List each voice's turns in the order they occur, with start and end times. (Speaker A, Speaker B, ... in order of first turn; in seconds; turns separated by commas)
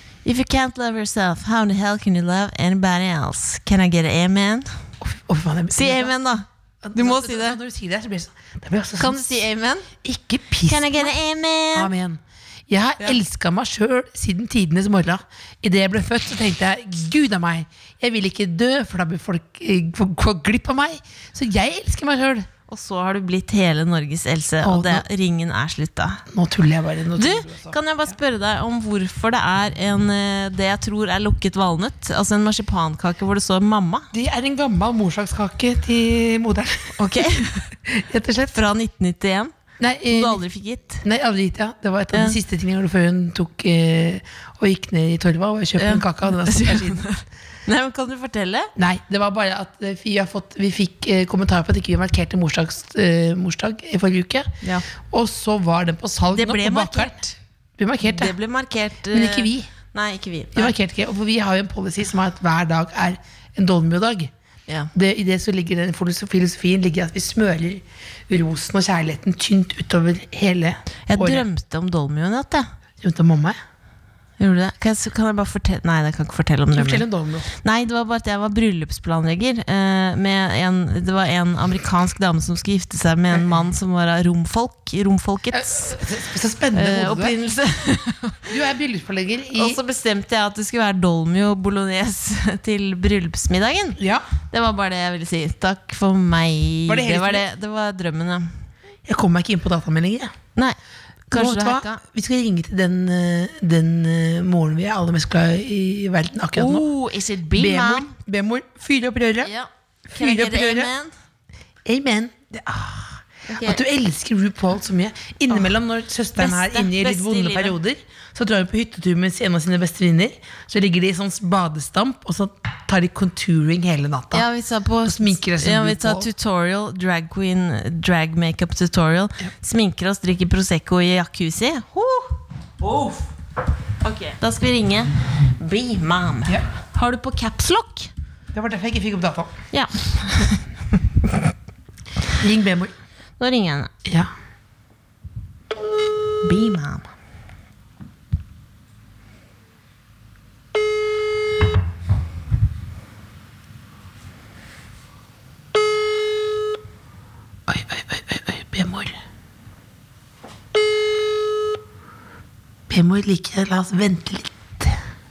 Speaker A: 0.2-4.7, Speaker B: 5.0-6.1, Speaker A: 5.7-7.6, Speaker B: 6.8-9.4, Speaker A: 9.0-9.9, Speaker B: 10.0-11.1, Speaker A: 10.7-11.9, Speaker B: 11.7-22.5, Speaker A: 22.7-26.2, Speaker B: 24.6-25.1, Speaker B: 26.3-28.1, Speaker A: 27.2-34.1, Speaker B: 34.1-37.2, Speaker A: 37.0-37.6, Speaker B: 37.8-38.6, Speaker A: 38.5-39.5, Speaker B: 39.8-40.4, Speaker A: 40.1-41.0, Speaker B: 41.0-47.0, Speaker A: 45.8-48.7, Speaker B: 48.8-57.2, Speaker A: 56.3-57.3, Speaker B: 57.8-58.3, Speaker A: 58.0-60.7, Speaker B: 59.1-59.7, Speaker B: 60.5-64.3, Speaker B: 64.9-71.4, Speaker A: 71.1-72.7, Speaker B: 73.0-73.6, Speaker A: 74.4-77.0, Speaker B: 76.7-77.5, Speaker A: 77.6-86.0, Speaker B: 83.3-83.6, Speaker B: 85.5-87.3, Speaker A: 86.7-88.5, Speaker B: 88.5-89.8, Speaker A: 89.5-94.0, Speaker B: 94.0-94.2, Speaker A: 94.5-98.5, Speaker B: 96.9-97.5, Speaker B: 99.0-100.3, Speaker A: 101.3-102.0, Speaker B: 101.3-106.9, Speaker A: 106.5-108.1, Speaker B: 107.5-109.5, Speaker A: 109.4-111.1, Speaker B: 110.1-110.9, Speaker B: 111.8-124.5, Speaker A: 113.5-113.8, Speaker A: 116.4-117.8, Speaker A: 124.3-132.3, Speaker B: 125.0-126.3, Speaker B: 132.8-133.3, Speaker A: 134.0-138.1, Speaker B: 138.5-139.5, Speaker A: 139.7-140.6, Speaker B: 142.4-142.9, Speaker A: 143.4-143.9, Speaker B: 144.0-144.3, Speaker A: 146.4-147.1, Speaker B: 157.7-159.2, Speaker B: 162.9-165.0